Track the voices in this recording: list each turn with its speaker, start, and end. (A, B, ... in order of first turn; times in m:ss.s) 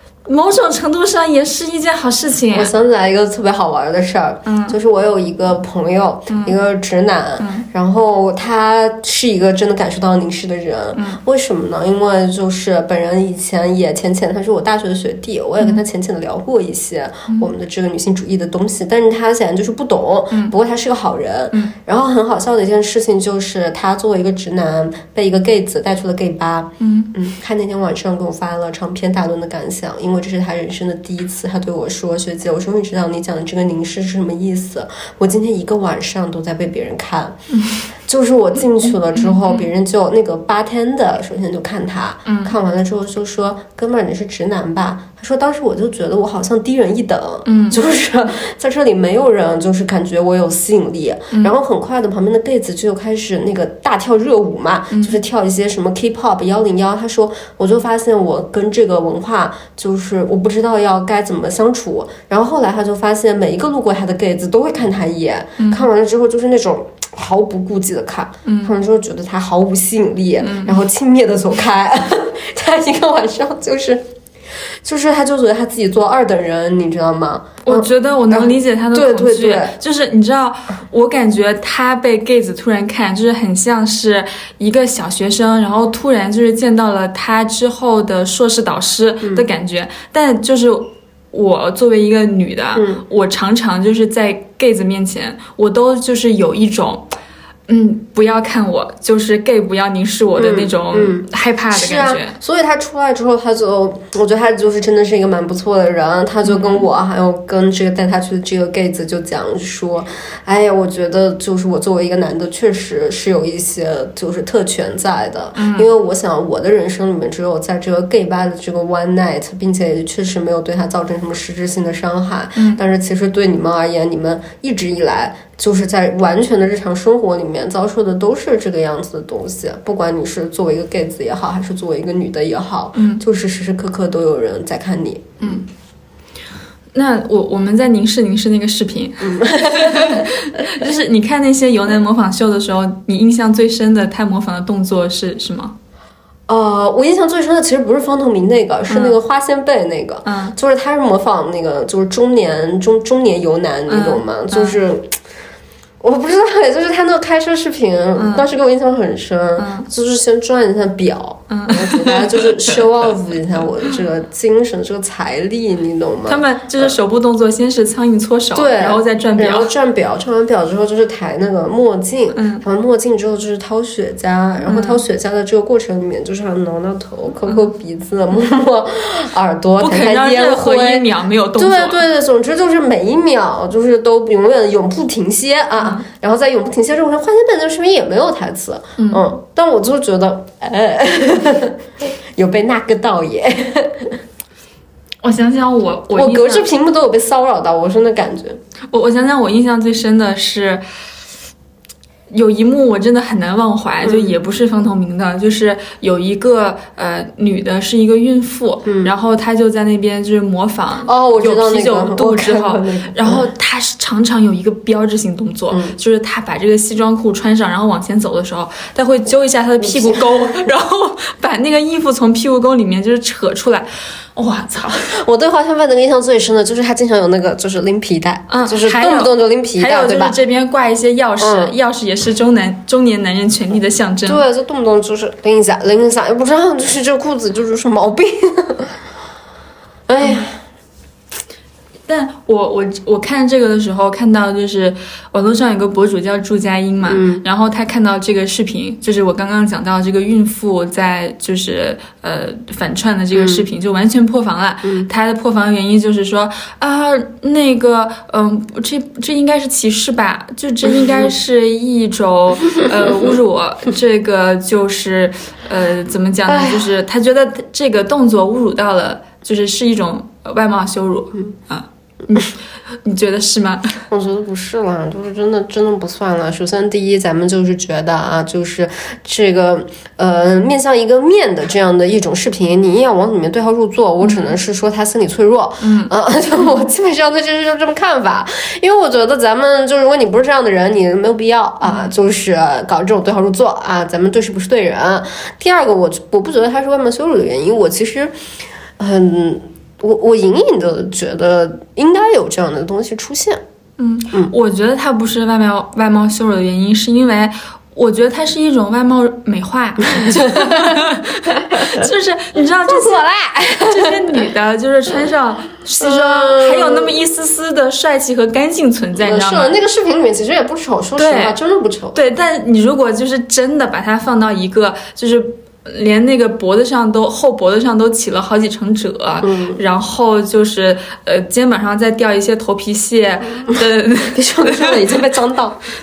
0:00.2-0:02.7 A
0:02.5-0:37.4 B
0:04.4-0:04.8 A
0:06.3-0:06.5 A
0:07.4-0:07.6 A
0:10.9-0:11.2 A
0:26.8-0:27.1 A
0:37.5-0:37.8 A
0:38.0-1:19.8 B
0:39.1-0:39.7 A
0:42.2-0:42.5 A
0:47.4-0:47.8 A
0:54.9-0:55.2 A
1:05.6-1:05.8 A
1:08.4-1:08.7 A
1:10.4-1:10.8 A
1:17.6-1:37.1 A
1:32.7-1:33.0 B
1:37.7-1:42.4 A
1:40.4-2:15.6 B
1:46.4-1:46.8 A
1:55.6-1:55.9 A
2:02.6-2:02.8 A
2:12.9-2:13.2 A
2:16.9-2:25.7 A
2:19.2-2:20.8 B
2:26.5-2:35.2 B
2:28.9-2:29.2 A
2:30.2-2:30.5 A
2:33.9-2:34.8 A
2:36.0-2:47.0 B
2:38.2-2:38.4 A
2:39.6-2:39.9 A
2:41.5-2:43.1 A
2:46.2-2:49.7 A
2:48.5-3:14.2 B
2:52.3-2:52.6 A
2:54.6-2:55.0 A
2:59.8-3:02.0 A
3:05.8-3:06.0 A
3:09.0-3:09.2 A
3:15.2-3:16.7 A
3:16.1-3:18.6 B
3:18.9-3:20.8 A
3:22.3-3:45.1 A
3:24.0-3:24.4 B
3:28.8-3:29.1 B
3:31.0-3:33.5 B
3:35.7-3:36.0 B
3:39.8-3:40.3 B
3:45.1-3:50.4 B
3:48.5-3:54.4 A
3:51.4-3:51.7 B
3:54.2-3:59.0 B
4:00.1-4:00.6 B
4:02.1-4:34.0 A
4:07.0-4:07.4 B
4:13.3-4:13.6 B
4:14.8-4:15.1 B
4:20.8-4:21.3 B
4:22.8-4:23.3 B
4:26.5-4:26.8 B
4:34.1-4:58.3 B
4:44.2-4:44.5 A
4:45.8-4:46.1 A
4:51.8-4:52.1 A
4:59.0-5:03.6 B
5:04.0-5:13.2 A
5:10.2-5:11.0 B
5:12.8-5:14.4 B
5:13.8-5:19.8 A
5:16.0-5:17.1 B
5:19.2-5:22.2 B
5:21.2-5:21.6 A
5:22.1-5:35.0 A
5:29.4-5:29.8 B
5:34.3-5:35.8 B